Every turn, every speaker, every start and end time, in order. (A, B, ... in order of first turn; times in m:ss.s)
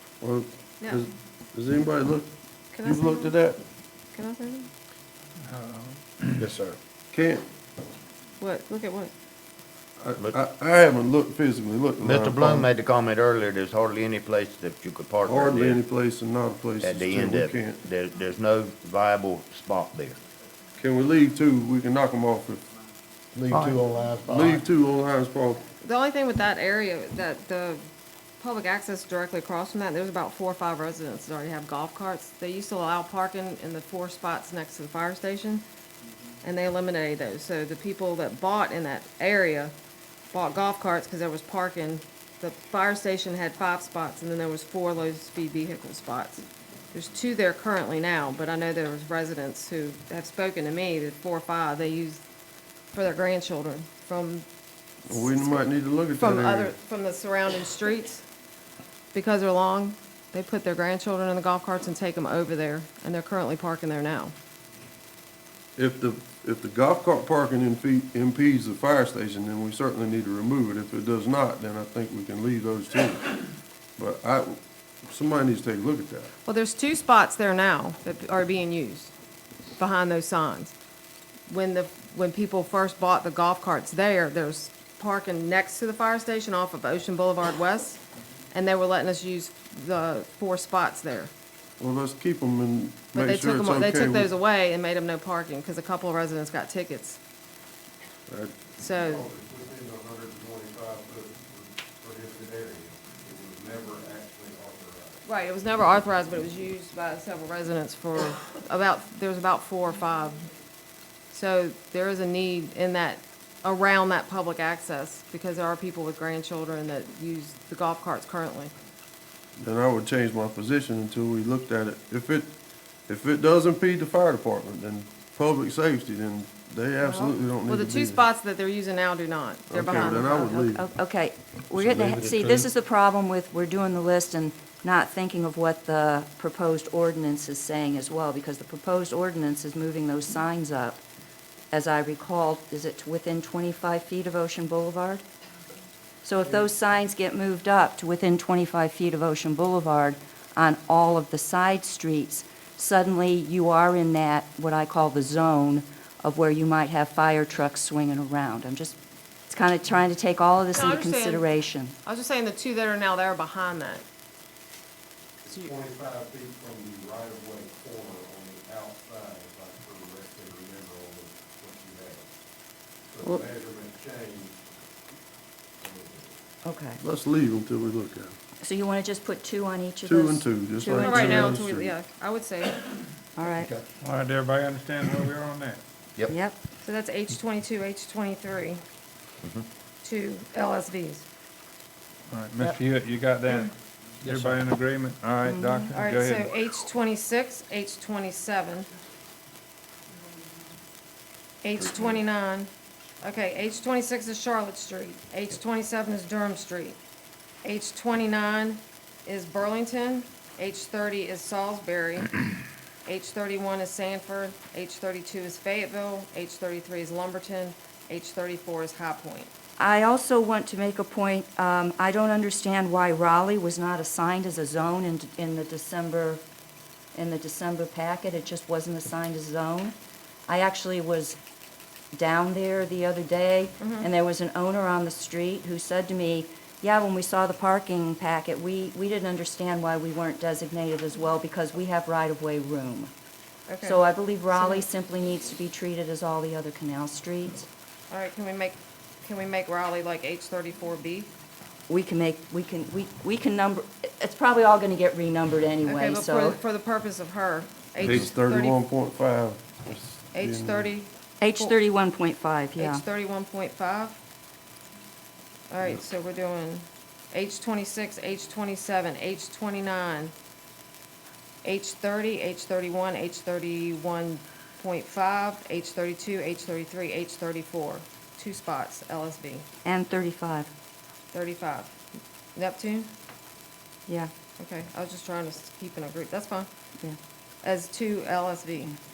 0:00.2-0:02.3 A
0:00.8-0:01.1 B
0:02.7-0:03.4 B
0:02.8-0:03.6 A
0:04.1-0:04.7 B
0:05.5-0:06.4 C
0:06.4-0:07.5 A
0:08.4-0:09.1 B
0:10.0-0:12.7 A
0:12.0-0:15.8 D
0:15.2-0:17.8 A
0:16.8-0:20.2 D
0:20.8-0:22.6 A
0:23.5-0:24.6 D
0:23.5-0:25.6 A
0:23.6-0:24.1 E
0:25.8-0:27.9 B
0:28.4-0:35.6 B
0:36.4-0:39.7 B
0:40.3-0:52.2 B
0:52.9-0:54.5 B
0:55.1-0:55.6 B
0:55.1-0:56.7 A
0:56.2-0:58.2 B
0:59.1-1:04.4 B
1:05.8-1:13.4 A
1:14.0-1:16.3 A
1:16.4-1:19.1 B
1:19.8-1:20.7 B
1:21.5-1:28.0 B
1:28.5-1:31.3 B
1:31.8-1:34.3 A
1:33.1-1:37.2 B
1:38.3-1:38.6 A
1:38.8-1:39.3 B
1:39.0-1:45.2 E
1:45.2-1:50.5 B
1:51.3-1:58.7 B
1:59.6-2:02.5 A
2:03.1-2:08.2 A
2:07.1-2:10.5 B
2:09.7-2:10.9 A
2:09.9-2:21.0 F
2:11.8-2:12.6 A
2:21.7-2:25.2 F
2:26.2-2:39.0 F
2:39.5-2:41.9 F
2:40.7-2:41.5 B
2:42.0-2:44.0 B
2:45.4-2:52.3 E
2:45.5-2:45.7 B
2:53.1-2:54.6 E
2:55.8-2:56.4 E
2:56.6-2:57.0 F
2:57.0-2:58.4 A
2:58.6-3:01.6 F
3:00.0-3:02.0 A
3:00.9-3:02.8 B
3:03.4-3:03.7 F
3:03.5-3:03.8 D
3:04.0-3:05.8 C
3:06.3-3:06.6 F
3:06.8-3:08.8 B
3:10.0-3:11.3 B
3:12.3-3:16.5 C
3:15.4-3:15.9 F
3:15.9-3:18.9 B
3:21.6-3:22.7 B
3:23.2-3:27.0 B
3:27.6-3:32.3 B
3:33.1-3:39.5 B
3:39.8-3:46.4 F
3:47.1-3:50.0 F
3:50.5-3:51.4 F
3:52.1-4:03.1 F
3:53.8-3:54.1 B
4:03.7-4:04.0 B
4:03.8-4:07.7 F
4:04.5-4:04.8 B
4:08.1-4:11.3 B
4:11.9-4:16.6 F
4:15.8-4:18.8 B
4:18.0-4:20.9 A
4:20.3-4:21.8 B
4:21.4-4:23.0 F
4:22.8-4:24.2 B
4:25.7-4:30.3 B
4:31.6-4:39.7 B
4:39.8-4:40.7 F
4:41.3-4:42.0 B
4:42.6-4:43.1 B
4:44.1-4:44.3 F
4:44.6-4:46.7 B
4:47.6-4:48.9 B